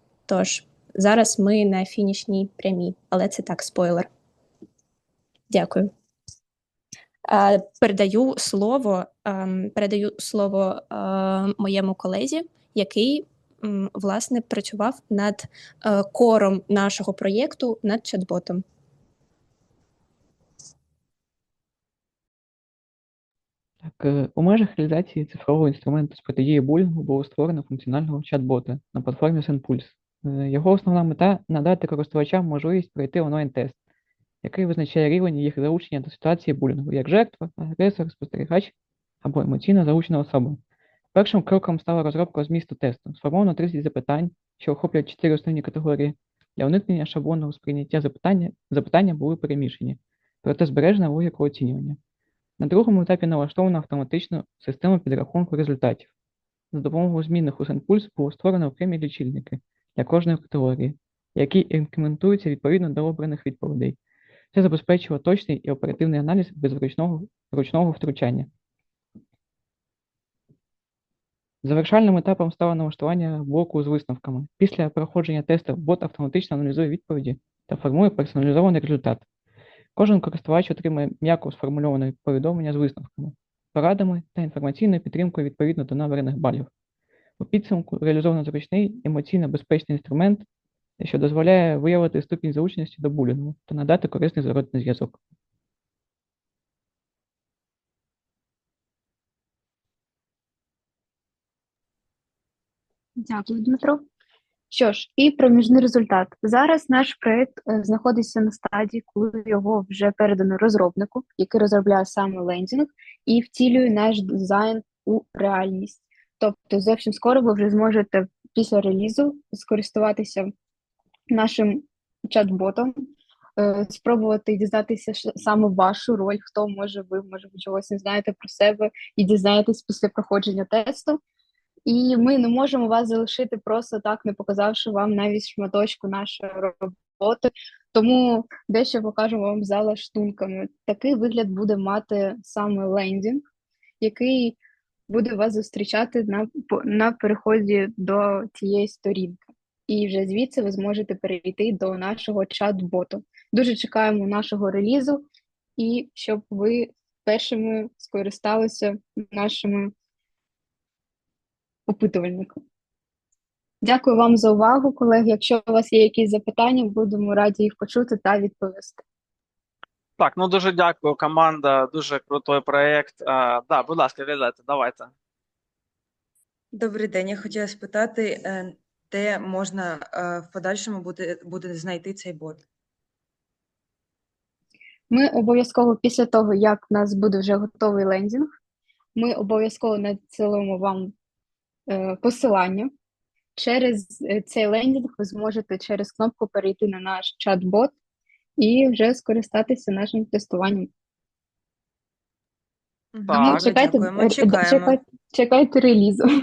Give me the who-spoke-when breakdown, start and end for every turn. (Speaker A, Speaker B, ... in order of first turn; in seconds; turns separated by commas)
Speaker A: 0.3-4.1, Speaker A: 5.5-5.9, Speaker A: 7.4-15.3, Speaker A: 15.9-18.6, Speaker B: 23.8-33.8, Speaker B: 34.4-40.6, Speaker B: 41.1-52.0, Speaker B: 52.6-56.1, Speaker B: 56.7-64.0, Speaker B: 64.5-68.5, Speaker B: 71.6-79.2, Speaker B: 80.0-86.7, Speaker B: 87.4-90.5, Speaker B: 91.0-95.2, Speaker C: 103.2-104.0, Speaker C: 104.7-120.5, Speaker C: 121.3-122.9, Speaker C: 123.6-131.2, Speaker C: 131.9-143.4, Speaker C: 144.0-144.6, Speaker C: 145.1-155.2, Speaker C: 155.8-159.9, Speaker C: 161.9-162.5, Speaker C: 163.8-169.0, Speaker D: 170.2-175.1, Speaker E: 176.7-182.6, Speaker C: 185.1-188.5, Speaker C: 189.2-191.1, Speaker C: 191.9-192.9, Speaker C: 193.6-197.9, Speaker C: 198.6-200.9, Speaker E: 203.1-205.0, Speaker D: 203.3-203.6, Speaker C: 203.3-206.2